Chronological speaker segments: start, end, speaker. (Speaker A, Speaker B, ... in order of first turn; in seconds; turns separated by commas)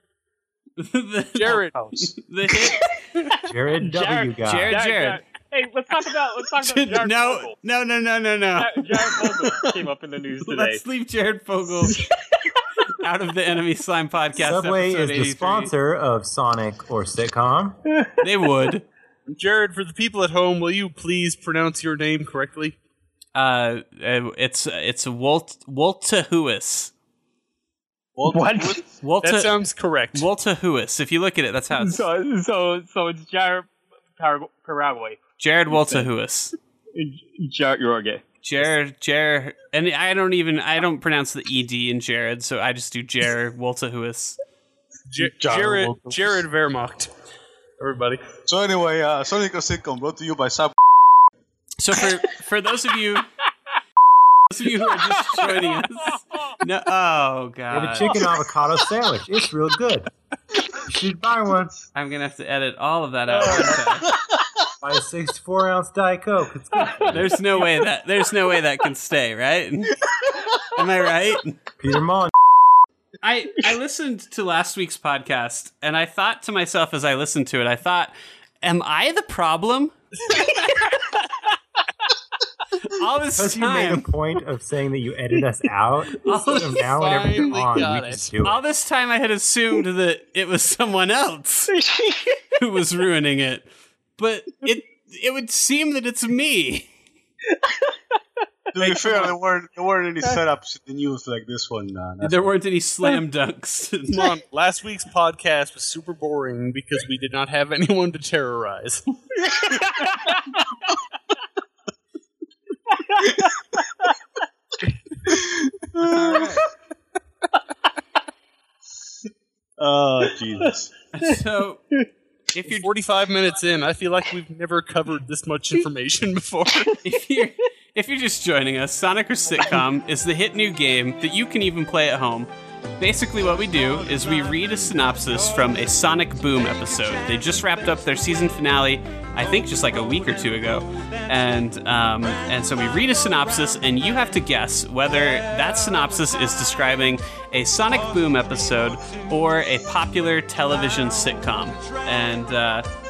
Speaker A: 0.8-3.0, Speaker B: 1.3-1.9, Speaker C: 1.8-2.1, Speaker D: 3.5-4.8, Speaker E: 3.8-7.5, Speaker A: 4.4-5.2, Speaker A: 6.6-9.7, Speaker E: 8.6-10.8, Speaker A: 10.5-12.1, Speaker A: 12.9-15.7, Speaker D: 14.4-17.8, Speaker A: 18.2-18.9, Speaker B: 19.3-22.8, Speaker A: 23.4-26.9, Speaker C: 28.2-28.8, Speaker E: 28.3-28.9, Speaker A: 29.0-29.5, Speaker B: 29.2-30.3, Speaker A: 30.1-32.1, Speaker E: 31.8-36.1, Speaker A: 35.4-36.5, Speaker E: 36.9-38.2, Speaker A: 38.4-44.4, Speaker B: 45.1-47.1, Speaker C: 45.2-46.4, Speaker B: 47.8-48.3, Speaker C: 48.5-50.8, Speaker A: 51.8-53.3, Speaker A: 54.5-58.1, Speaker E: 55.4-55.6, Speaker D: 57.7-60.1, Speaker D: 60.8-61.8, Speaker A: 61.9-64.1, Speaker D: 64.8-67.4, Speaker A: 67.1-71.6, Speaker D: 71.8-72.3, Speaker A: 73.2-80.0, Speaker E: 80.3-81.2, Speaker A: 82.8-84.1, Speaker D: 83.4-88.6, Speaker A: 86.3-86.8, Speaker B: 86.3-88.3, Speaker A: 88.4-91.8, Speaker E: 91.7-92.4, Speaker A: 92.6-96.9, Speaker E: 97.5-98.0, Speaker C: 98.7-102.5, Speaker E: 98.8-99.3, Speaker A: 102.2-104.3, Speaker B: 104.1-109.0, Speaker E: 109.5-110.6, Speaker E: 113.0-114.1, Speaker C: 115.3-116.5, Speaker A: 116.0-116.7, Speaker C: 119.8-120.9, Speaker A: 121.1-121.9, Speaker A: 122.5-122.9, Speaker B: 122.7-127.0, Speaker A: 127.0-152.9